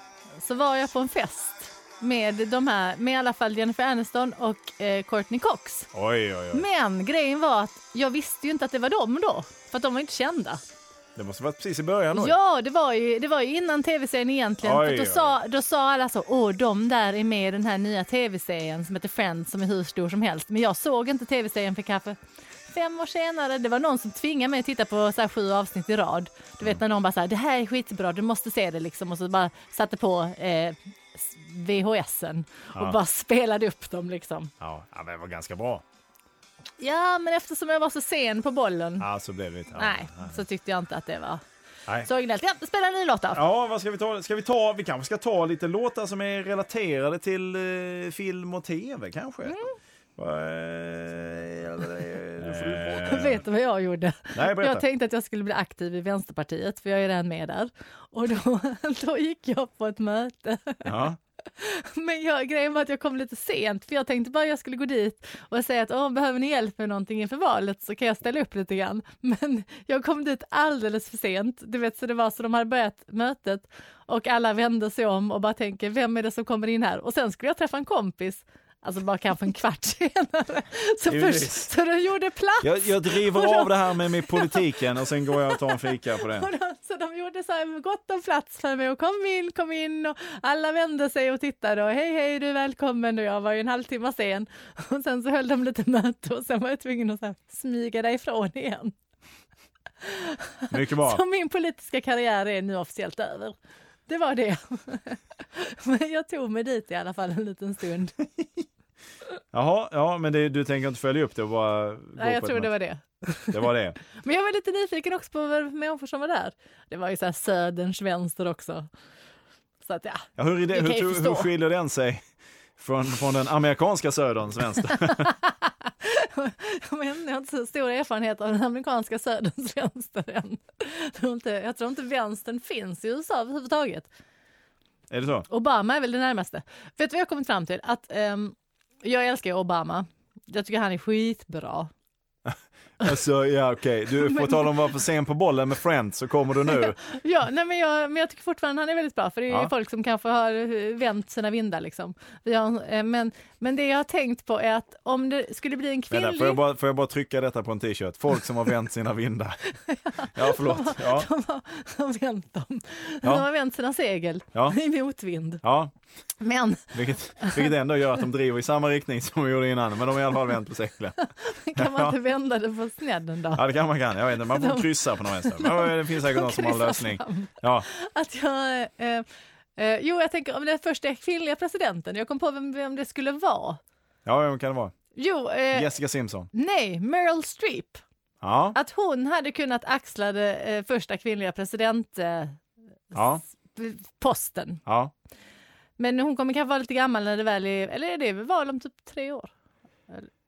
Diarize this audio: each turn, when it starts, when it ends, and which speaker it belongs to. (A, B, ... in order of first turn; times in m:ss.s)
0:00.4-0:05.9 A
0:05.9-0:06.6 B
0:06.5-0:10.6 A
0:11.2-0:12.4 B
0:12.1-0:34.5 A
0:14.6-0:15.4 B
0:34.6-0:35.8 B
0:36.8-0:39.0 A
0:39.0-0:40.4 B
0:39.7-0:41.4 A
0:42.0-0:43.4 A
0:43.3-0:49.6 B
0:49.4-0:49.7 A
0:50.2-0:53.4 B
0:52.6-1:01.0 A
0:54.3-0:54.8 B
1:00.8-1:01.2 B
1:01.5-1:38.9 A
1:21.1-1:21.7 B
1:22.6-1:26.5 B
1:40.0-1:43.6 A
1:40.7-1:41.2 B
1:44.1-1:48.2 A
1:49.5-1:52.7 B
1:52.2-1:58.9 A
1:53.5-1:54.0 B
1:59.8-2:01.5 A
2:00.4-2:02.2 B
2:02.8-2:05.3 B
2:05.0-2:14.1 A
2:15.1-2:15.5 B
2:15.5-2:21.9 A
2:22.4-2:27.0 B
2:24.2-2:24.7 A
2:26.7-2:36.6 A
2:36.1-2:39.6 B
2:39.7-2:45.6 A
2:40.3-2:41.3 B
2:45.6-2:45.9 B
2:46.4-2:47.7 A
2:46.9-2:51.2 B
2:51.2-2:53.6 A
2:51.7-2:52.1 B
2:53.5-2:57.9 B
2:54.4-2:59.2 A
2:59.8-3:03.8 A
3:04.2-3:04.9 B
3:05.1-3:05.9 A
3:05.7-3:06.5 B
3:06.5-3:08.0 A
3:08.4-3:08.8 B
3:08.7-3:12.6 A
3:13.1-3:14.8 A
3:13.1-3:13.4 B
3:14.8-3:15.1 B
3:16.0-3:19.5 A